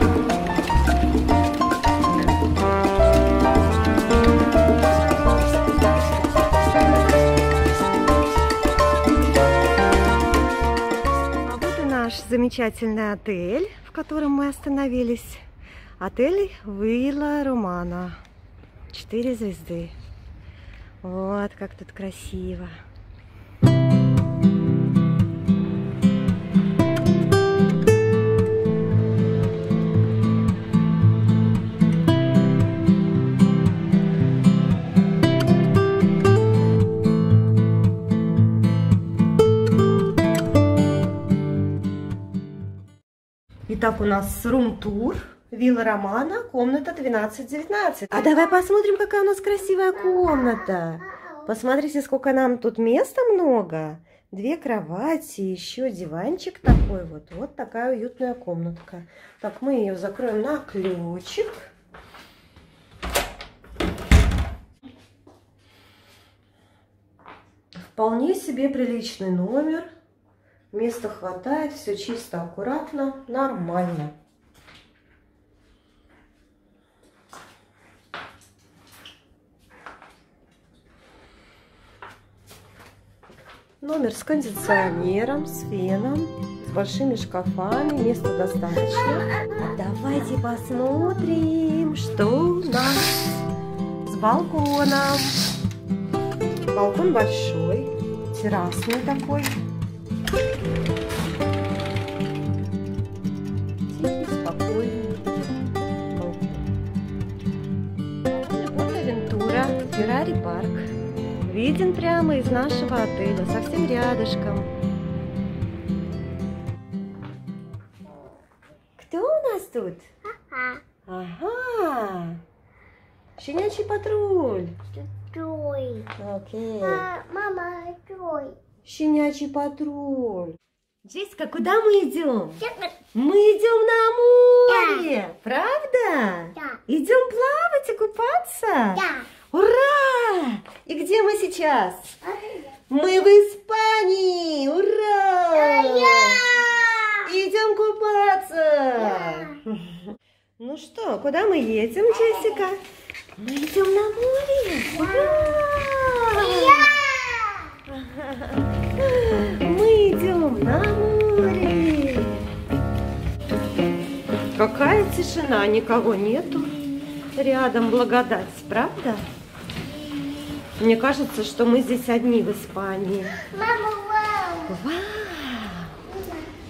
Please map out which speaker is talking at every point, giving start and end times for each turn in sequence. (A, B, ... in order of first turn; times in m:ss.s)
0:11.4-0:15.4 A
0:16.0-0:18.2 A
0:18.9-0:20.0 A
0:21.0-0:22.8 A
0:43.7-1:01.7 A
1:07.8-1:09.9 A
1:10.7-1:14.1 A
1:23.8-1:33.4 A
1:34.0-1:35.4 A
1:36.7-1:39.6 A
1:43.9-1:45.3 A
1:46.1-1:46.7 A
1:48.3-1:54.7 A
1:59.0-2:00.1 A
2:00.4-2:00.8 B
2:01.1-2:02.4 A
2:03.4-2:04.8 A
2:05.0-2:06.1 B
2:06.1-2:07.1 A
2:06.8-2:08.6 B
2:08.8-2:22.2 A
2:22.9-2:32.8 A
2:25.9-2:26.4 B
2:33.4-2:37.1 A
2:37.9-2:42.5 A
2:44.5-2:49.3 A
2:50.8-2:53.5 A
2:53.5-2:54.7 B
2:54.7-2:56.0 A